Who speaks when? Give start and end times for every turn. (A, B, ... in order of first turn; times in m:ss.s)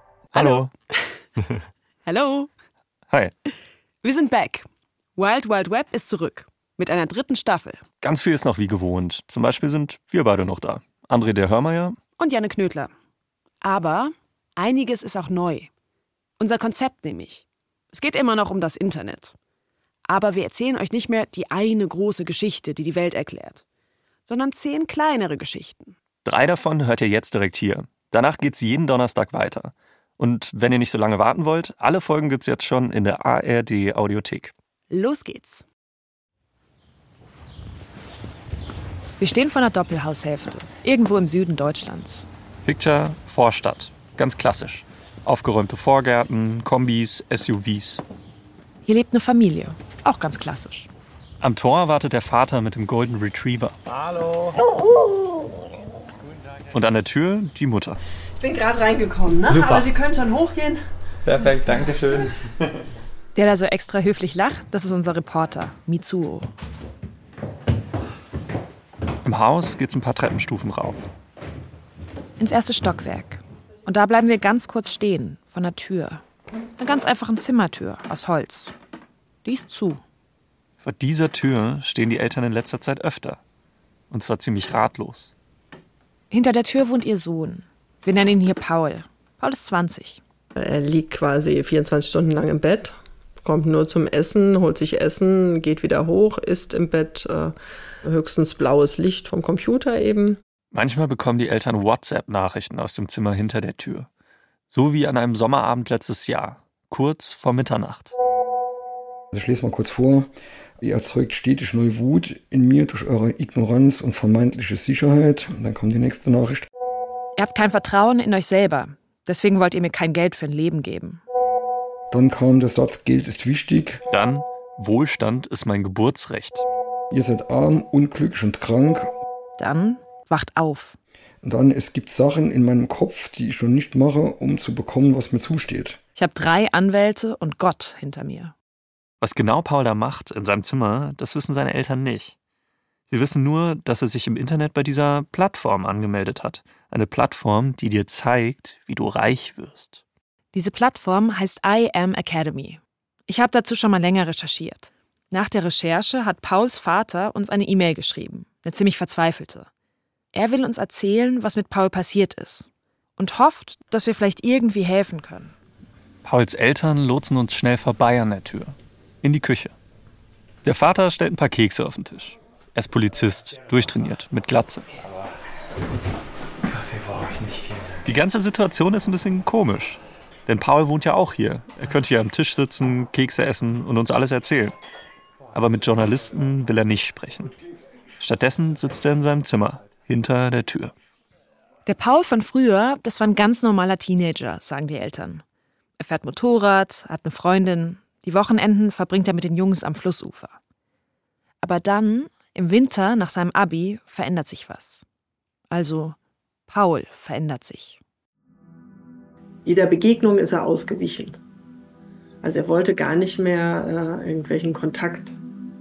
0:00.3-0:00.7 A
0:00.3-0:01.2 B
0:02.0-0:02.5 B
0:04.0-0:07.8 B
0:08.0-0:12.0 A
0:12.2-0:12.9 B
0:13.6-0:15.7 B
0:16.4-0:19.3 B
0:20.1-0:23.6 B
0:24.2-0:26.0 B
0:26.2-0:34.5 A
0:34.9-0:35.6 B
0:39.2-0:42.3 B
0:42.6-0:48.0 A
0:48.8-0:50.9 B
0:51.4-0:53.8 A
0:54.0-0:54.5 C
0:56.7-0:58.0 A
0:58.4-1:00.8 D
0:59.4-0:59.9 C
1:01.2-1:02.4 C
1:03.3-1:06.5 B
1:09.2-1:11.1 A
1:12.4-1:16.2 B
1:16.8-1:18.7 B
1:19.4-1:20.0 B
1:20.8-1:23.4 A
1:24.1-1:25.3 A
1:26.3-1:30.2 B
1:30.6-1:40.4 D
1:40.7-1:44.1 A
1:44.7-1:48.1 A
1:49.3-1:56.7 E
1:57.4-2:01.2 B
2:02.1-2:04.0 E
2:04.1-2:06.6 A
2:07.1-2:09.1 E
2:09.6-2:11.0 B
2:11.4-2:16.0 E
2:16.2-2:18.5 B
2:19.2-2:22.3 A
2:23.1-2:30.0 A
2:30.5-2:39.7 B
2:40.3-2:45.5 B
2:46.2-2:49.7 A
2:50.6-2:54.9 A
2:56.7-2:57.9 C
2:58.0-3:04.7 A
3:05.5-3:07.5 A
3:08.2-3:10.9 A
3:11.8-3:15.4 B
3:16.0-3:20.6 B
3:21.6-3:25.0 B
3:25.7-3:26.2 B
3:26.7-3:28.0 B
3:29.6-3:31.4 D
3:32.4-3:35.4 D